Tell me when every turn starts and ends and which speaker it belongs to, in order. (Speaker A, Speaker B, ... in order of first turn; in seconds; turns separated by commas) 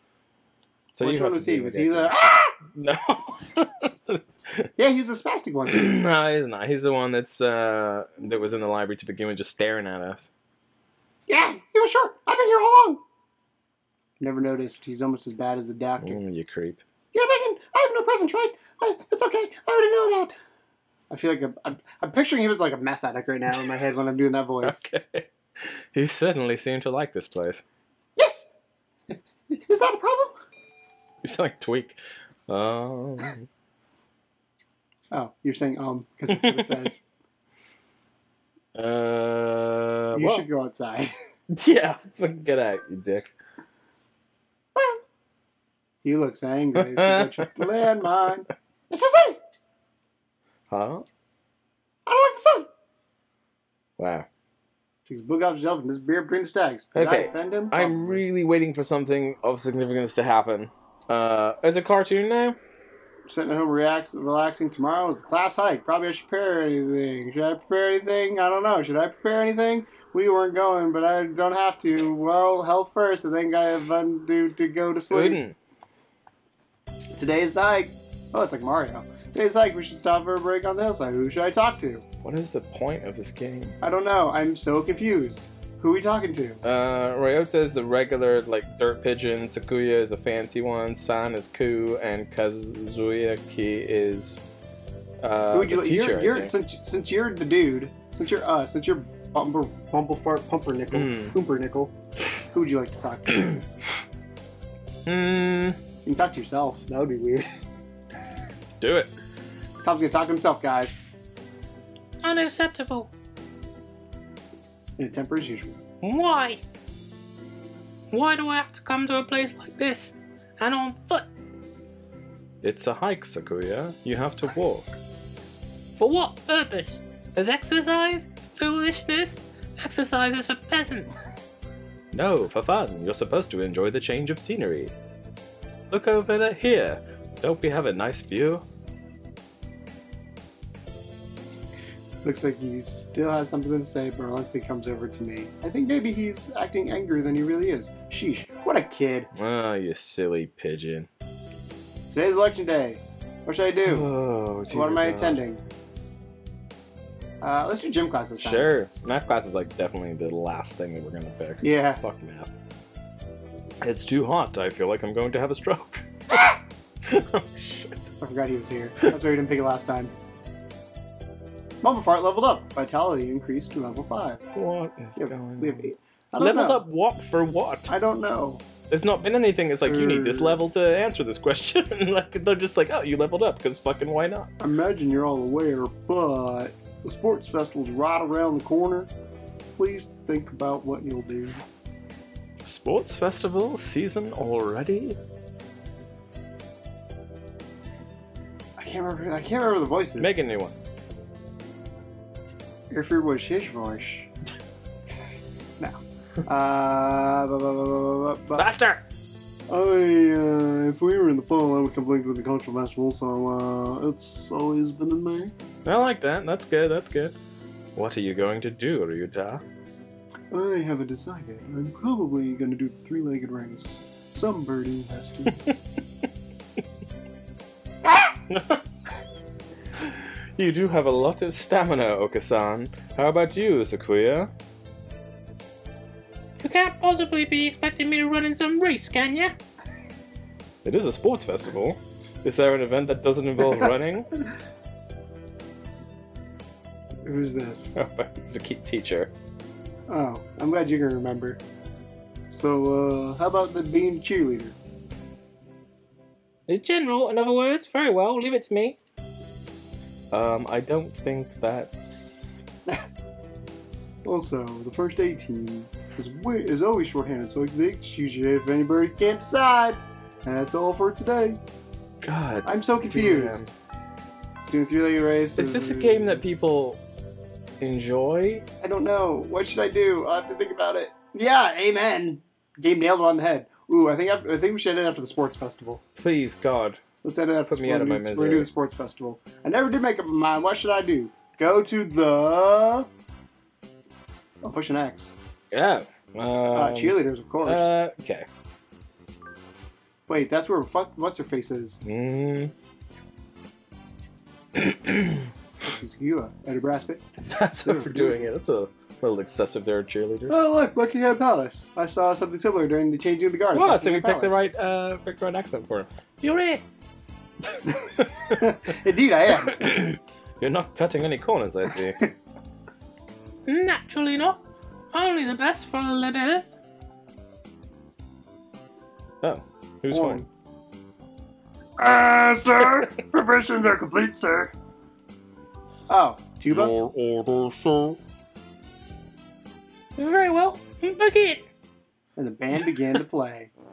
Speaker A: 0.9-2.1, Speaker B: 1.0-2.5, Speaker A: 2.6-4.7, Speaker B: 4.8-5.9, Speaker A: 5.7-10.3, Speaker B: 11.3-13.0, Speaker B: 14.2-16.2, Speaker A: 16.0-16.8, Speaker B: 17.1-20.3, Speaker B: 21.1-24.9, Speaker A: 24.6-27.6, Speaker B: 28.1-28.5, Speaker B: 29.1-30.3, Speaker A: 31.2-33.5, Speaker B: 35.1-37.0, Speaker A: 36.3-36.9, Speaker A: 38.7-40.5, Speaker B: 40.1-41.1, Speaker A: 41.5-43.3, Speaker B: 46.0-49.4, Speaker A: 46.8-47.8, Speaker A: 50.7-51.0, Speaker B: 52.0-52.7, Speaker A: 54.0-54.3, Speaker B: 55.1-58.2, Speaker A: 56.9-62.6, Speaker B: 63.3-75.4, Speaker A: 75.1-75.5, Speaker B: 77.1-82.0, Speaker A: 82.2-83.8, Speaker B: 83.8-86.6, Speaker A: 86.6-94.4, Speaker A: 95.2-96.5, Speaker B: 95.5-101.9, Speaker A: 100.9-101.3, Speaker B: 102.5-103.6, Speaker A: 105.0-105.8, Speaker B: 106.0-107.5, Speaker A: 108.8-109.1, Speaker B: 109.8-111.0, Speaker C: 112.2-113.1, Speaker B: 115.0-115.8, Speaker C: 116.0-116.6, Speaker C: 118.1-121.3, Speaker A: 122.6-124.9, Speaker C: 126.0-131.1, Speaker A: 132.1-134.9, Speaker A: 135.9-138.6, Speaker B: 142.2-149.3, Speaker A: 149.3-151.1, Speaker B: 152.1-154.1, Speaker A: 153.8-155.4, Speaker B: 154.7-155.6, Speaker B: 157.4-158.7, Speaker A: 158.4-162.5, Speaker B: 161.6-162.0, Speaker A: 163.8-168.0, Speaker B: 168.2-170.1, Speaker B: 171.8-174.4, Speaker A: 174.5-175.9, Speaker B: 175.2-176.8, Speaker A: 176.4-177.9, Speaker B: 177.9-178.6, Speaker A: 178.9-184.5, Speaker B: 179.8-180.6, Speaker B: 184.6-189.1, Speaker B: 189.7-191.6, Speaker A: 192.6-195.2, Speaker B: 198.8-200.4, Speaker A: 200.2-200.8, Speaker B: 202.9-204.3, Speaker B: 205.8-208.7, Speaker A: 208.6-209.0, Speaker B: 209.7-215.5, Speaker A: 215.8-217.3, Speaker A: 217.9-219.6, Speaker B: 220.5-225.6, Speaker A: 228.5-228.8, Speaker A: 230.0-234.5, Speaker C: 236.6-239.5, Speaker A: 240.8-244.3, Speaker B: 247.2-247.9, Speaker A: 247.9-249.3, Speaker B: 250.1-251.6, Speaker B: 252.5-254.8, Speaker C: 256.7-258.8, Speaker A: 257.0-258.0, Speaker A: 258.6-258.9, Speaker A: 260.3-262.6, Speaker B: 264.2-271.6, Speaker A: 272.2-273.7, Speaker B: 272.6-273.7, Speaker B: 274.6-276.4, Speaker A: 275.6-277.0, Speaker A: 277.8-278.6, Speaker B: 278.8-286.0, Speaker A: 286.1-287.0, Speaker B: 287.2-293.1, Speaker A: 287.7-288.7, Speaker B: 294.6-295.3, Speaker A: 295.7-298.5, Speaker B: 296.7-297.9, Speaker B: 300.3-302.0, Speaker A: 302.0-302.7, Speaker A: 304.7-305.5, Speaker B: 305.8-308.5, Speaker A: 307.5-310.6, Speaker B: 310.5-314.6, Speaker A: 313.7-316.1, Speaker C: 316.4-316.8, Speaker B: 317.9-319.9, Speaker A: 318.2-318.7, Speaker A: 319.7-322.2, Speaker C: 323.6-324.6, Speaker C: 325.1-326.6, Speaker A: 329.4-330.4, Speaker B: 330.1-330.4, Speaker B: 332.0-334.7, Speaker B: 336.1-336.9, Speaker A: 336.7-338.2, Speaker C: 340.2-341.6, Speaker B: 342.4-343.7